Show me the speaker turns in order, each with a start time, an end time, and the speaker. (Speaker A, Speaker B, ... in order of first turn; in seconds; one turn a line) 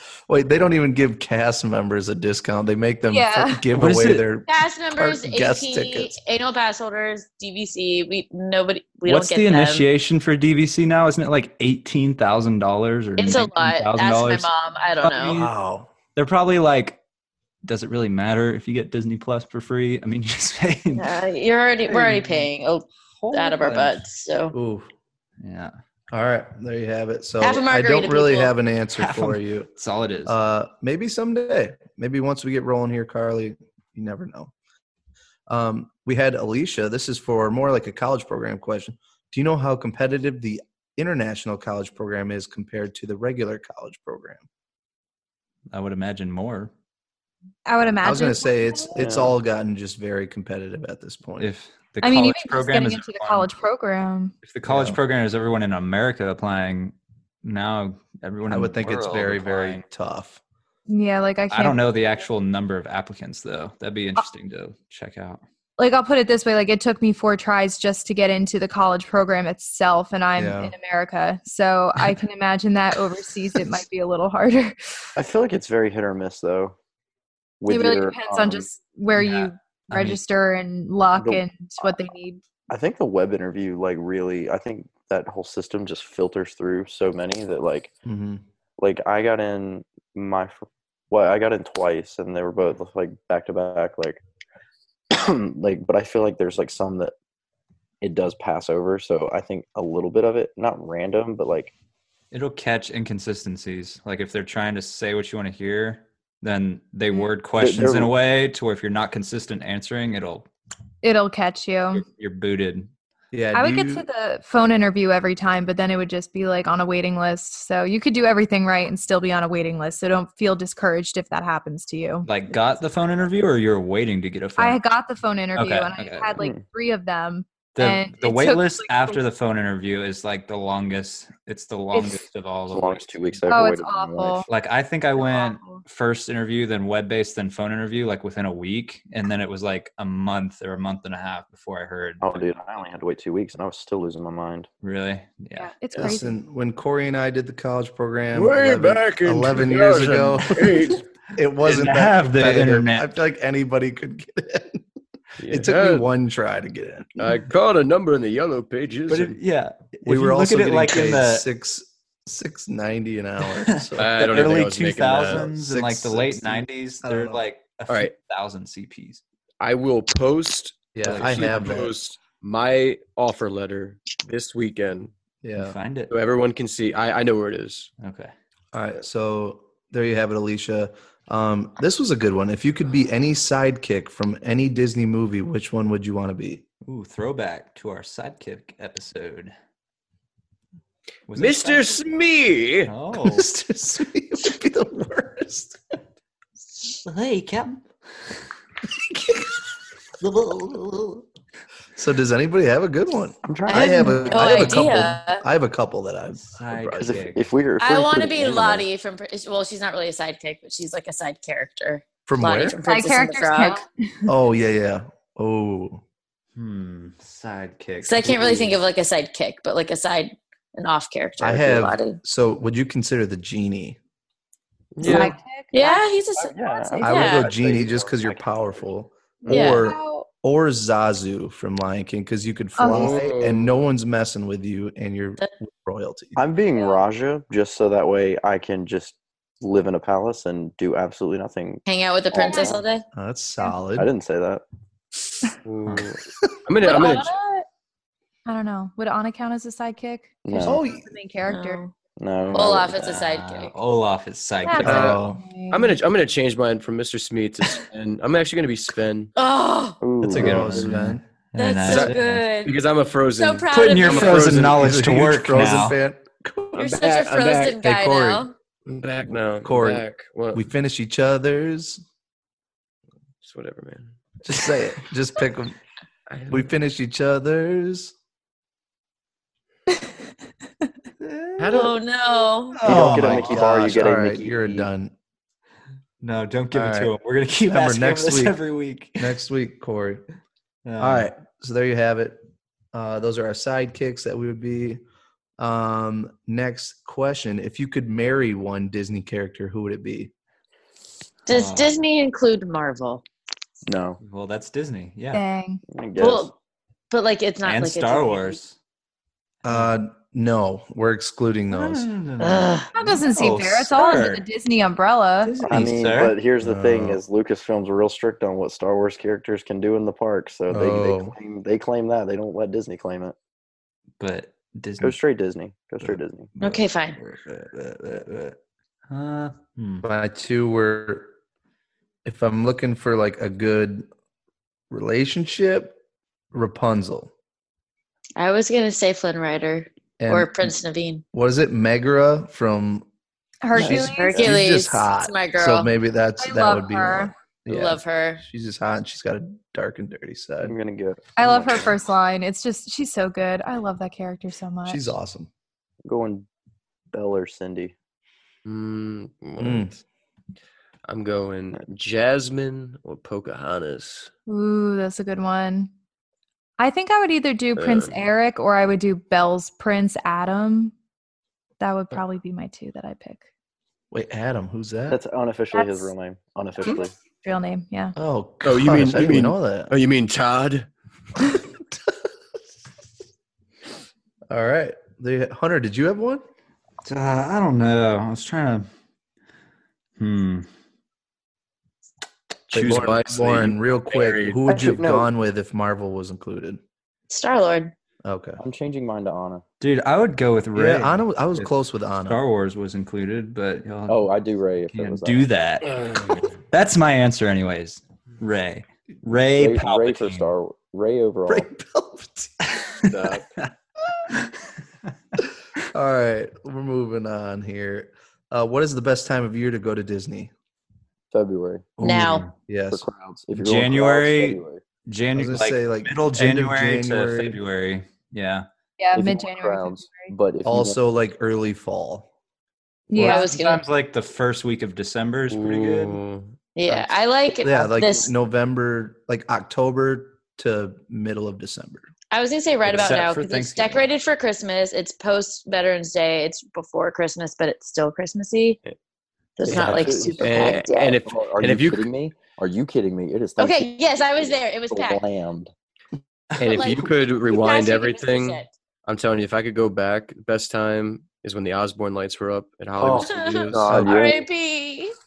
Speaker A: 0.3-6.1
Speaker B: 3.1-3.6
Speaker C: 3.7-4.2
Speaker D: 4.5-9.8
Speaker C: 9.1-14.5
Speaker D: 13.2-15.4
Speaker C: 15.0-15.5
Speaker A: 15.2-15.9
Speaker C: 16.1-17.0
Speaker C: 17.6-21.2
Speaker D: 20.9-24.5
Speaker C: 21.8-22.5
Speaker C: 23.2-24.0
Speaker A: 24.5-24.9
Speaker C: 25.4-25.7
Speaker A: 26.1-29.7
Speaker D: 27.4-28.5
Speaker C: 28.9-30.4
Speaker A: 30.2-34.5
Speaker A: 35.5-44.4
Speaker C: 45.7-46.7
Speaker B: 47.6-49.0
Speaker A: 48.0-51.5
Speaker E: 49.0-49.4
Speaker C: 51.4-53.5
Speaker B: 52.0-54.3
Speaker C: 54.4-59.8
Speaker A: 54.6-55.0
Speaker A: 58.5-60.4
Speaker B: 60.9-61.8
Speaker C: 61.5-65.4
Speaker B: 65.8-75.0
Speaker A: 70.3-70.7
Speaker E: 75.2-76.7
Speaker E: 77.6-78.7
Speaker B: 77.7-82.4
Speaker C: 79.1-80.2
Speaker E: 81.2-81.9
Speaker E: 82.7-87.9
Speaker A: 88.0-88.4
Speaker E: 88.8-94.2
Speaker E: 95.1-97.1
Speaker E: 98.0-101.7
Speaker C: 102.3-110.5
Speaker E: 107.6-108.1
Speaker B: 111.0-112.0
Speaker C: 111.9-112.9
Speaker A: 113.3-114.0
Speaker B: 113.5-122.3
Speaker C: 122.2-124.8
Speaker B: 124.6-129.2
Speaker C: 125.5-126.4
Speaker C: 127.7-133.4
Speaker B: 131.9-132.2
Speaker E: 132.7-134.4
Speaker B: 133.5-134.4
Speaker C: 134.5-142.5
Speaker B: 135.2-135.8
Speaker E: 142.2-144.7
Speaker C: 144.8-145.7
Speaker B: 145.6-146.4
Speaker A: 146.0-154.8
Speaker F: 148.3-151.0
Speaker C: 151.6-153.1
Speaker F: 155.4-156.1
Speaker A: 155.5-157.2
Speaker F: 157.2-159.4
Speaker C: 159.1-161.5
Speaker A: 160.0-167.4
Speaker C: 163.7-169.2
Speaker F: 164.0-165.5
Speaker F: 167.9-168.1
Speaker F: 169.6-175.1
Speaker A: 170.9-172.0
Speaker C: 171.0-171.8
Speaker A: 175.4-175.8
Speaker C: 175.6-176.1
Speaker F: 176.1-177.9
Speaker C: 178.0-178.3
Speaker A: 178.7-186.6
Speaker C: 186.8-189.5
Speaker C: 191.3-192.0
Speaker F: 191.3-192.9
Speaker C: 192.8-193.5
Speaker A: 193.2-195.8
Speaker C: 196.9-197.8
Speaker A: 198.9-199.5
Speaker C: 200.2-201.2
Speaker A: 201.9-207.1
Speaker E: 203.4-204.6
Speaker D: 203.7-205.4
Speaker C: 204.3-204.9
Speaker C: 206.3-207.5
Speaker E: 207.0-208.9
Speaker D: 207.8-213.8
Speaker A: 212.2-212.8
Speaker B: 212.8-214.3
Speaker A: 214.3-216.0
Speaker C: 216.5-218.7
Speaker D: 218.0-222.2
Speaker A: 221.4-224.0
Speaker F: 224.9-225.3
Speaker D: 225.0-227.4
Speaker B: 225.1-226.1
Speaker E: 226.4-228.9
Speaker B: 226.6-227.1
Speaker A: 227.0-236.4
Speaker B: 229.5-230.3
Speaker D: 229.5-229.9
Speaker B: 232.8-233.1
Speaker F: 232.8-233.8
Speaker E: 236.3-242.8
Speaker B: 236.7-237.0
Speaker D: 241.8-243.0
Speaker B: 242.4-242.7
Speaker A: 243.1-244.1
Speaker E: 243.9-244.6
Speaker F: 245.6-247.3
Speaker B: 246.8-247.7
Speaker B: 248.4-251.8
Speaker E: 250.4-250.8
Speaker A: 250.6-251.1
Speaker D: 251.5-251.9
Speaker E: 252.2-253.1
Speaker D: 252.5-253.7
Speaker C: 252.9-255.2
Speaker B: 254.6-255.9
Speaker A: 254.8-255.4
Speaker F: 254.8-259.3
Speaker D: 259.4-260.0
Speaker E: 260.0-260.9
Speaker C: 260.2-262.4
Speaker A: 260.3-261.2
Speaker D: 261.6-262.8
Speaker F: 261.9-265.0
Speaker D: 263.4-264.6
Speaker C: 263.7-266.0
Speaker A: 264.6-266.9
Speaker F: 266.7-267.8
Speaker D: 266.8-268.5
Speaker A: 267.8-268.4
Speaker F: 268.9-270.6
Speaker A: 269.6-272.0
Speaker F: 273.4-274.1
Speaker A: 274.4-275.8
Speaker F: 276.3-276.7
Speaker A: 276.5-278.1
Speaker C: 281.2-281.6
Speaker F: 281.6-282.0
Speaker D: 281.7-282.8
Speaker C: 282.8-283.6
Speaker E: 282.8-284.9
Speaker A: 282.8-285.1
Speaker C: 286.2-289.3
Speaker A: 286.7-287.1
Speaker A: 287.7-288.6
Speaker A: 289.2-290.2
Speaker C: 290.8-291.3
Speaker A: 291.0-292.4
Speaker A: 292.9-295.0
Speaker A: 295.6-300.3
Speaker C: 301.5-301.9
Speaker D: 301.5-303.2
Speaker E: 303.9-304.2
Speaker C: 304.2-305.4
Speaker B: 305.3-305.8
Speaker E: 305.9-306.5
Speaker D: 306.2-306.5
Speaker D: 307.1-308.6
Speaker C: 307.6-308.8
Speaker C: 309.6-309.9
Speaker A: 309.6-312.1
Speaker C: 311.7-314.4
Speaker D: 312.4-312.9
Speaker B: 312.9-315.6
Speaker C: 315.4-316.4
Speaker E: 315.6-323.3
Speaker A: 316.6-317.2
Speaker A: 320.7-321.3
Speaker C: 324.2-325.1
Speaker E: 325.0-326.5
Speaker C: 326.0-328.6
Speaker D: 326.6-327.2
Speaker C: 329.1-330.0
Speaker A: 330.0-331.3
Speaker A: 332.2-334.1
Speaker A: 334.9-336.0
Speaker A: 336.5-337.3
Speaker D: 338.4-341.2
Speaker A: 340.2-340.7
Speaker A: 341.3-343.0
Speaker B: 343.6-344.4
Speaker A: 343.7-350.7
Speaker D: 343.8-345.9
Speaker B: 346.4-347.3
Speaker D: 347.7-348.4
Speaker E: 350.6-351.9
Speaker B: 351.4-355.1
Speaker A: 354.9-355.5
Speaker E: 356.0-356.5
Speaker E: 357.1-357.9
Speaker F: 358.6-359.9
Speaker A: 359.6-360.0
Speaker F: 361.1-364.3
Speaker B: 364.5-365.9
Speaker B: 366.8-370.9
Speaker F: 367.7-368.2
Speaker B: 371.8-373.4
Speaker A: 374.1-375.2
Speaker E: 375.1-377.1
Speaker B: 375.7-376.1
Speaker B: 376.8-378.1
Speaker A: 378.1-379.9
Speaker F: 378.6-380.9
Speaker A: 384.5-386.4
Speaker C: 387.0-388.9
Speaker C: 390.2-390.7
Speaker A: 392.7-396.8
Speaker F: 392.7-394.6
Speaker E: 394.6-395.3
Speaker D: 397.3-397.9
Speaker A: 398.2-398.6
Speaker E: 398.6-399.6
Speaker C: 399.8-401.7
Speaker A: 400.7-402.4
Speaker C: 402.2-404.3
Speaker E: 404.1-405.4
Speaker C: 404.9-410.5
Speaker F: 405.9-406.5
Speaker E: 409.6-411.7
Speaker A: 411.5-412.6
Speaker F: 413.1-413.4
Speaker A: 415.9-420.5
Speaker E: 421.3-421.9
Speaker C: 422.0-422.5
Speaker D: 422.0-422.5
Speaker A: 422.0-423.0
Speaker E: 422.9-424.8
Speaker C: 423.5-428.7
Speaker A: 425.3-427.6
Speaker B: 429.0-430.3
Speaker E: 429.1-431.0
Speaker A: 430.6-432.3
Speaker B: 433.1-433.5
Speaker C: 433.1-436.2
Speaker D: 433.2-433.8
Speaker F: 435.5-436.5
Speaker D: 436.7-438.3
Speaker A: 437.6-442.1
Speaker D: 442.3-448.8
Speaker C: 442.8-444.1
Speaker D: 449.6-451.2
Speaker E: 449.6-455.7
Speaker F: 449.7-452.1
Speaker D: 453.6-455.2
Speaker F: 456.6-464.1
Speaker D: 456.6-458.7
Speaker E: 463.0-464.4
Speaker D: 463.2-465.1
Speaker A: 463.9-464.2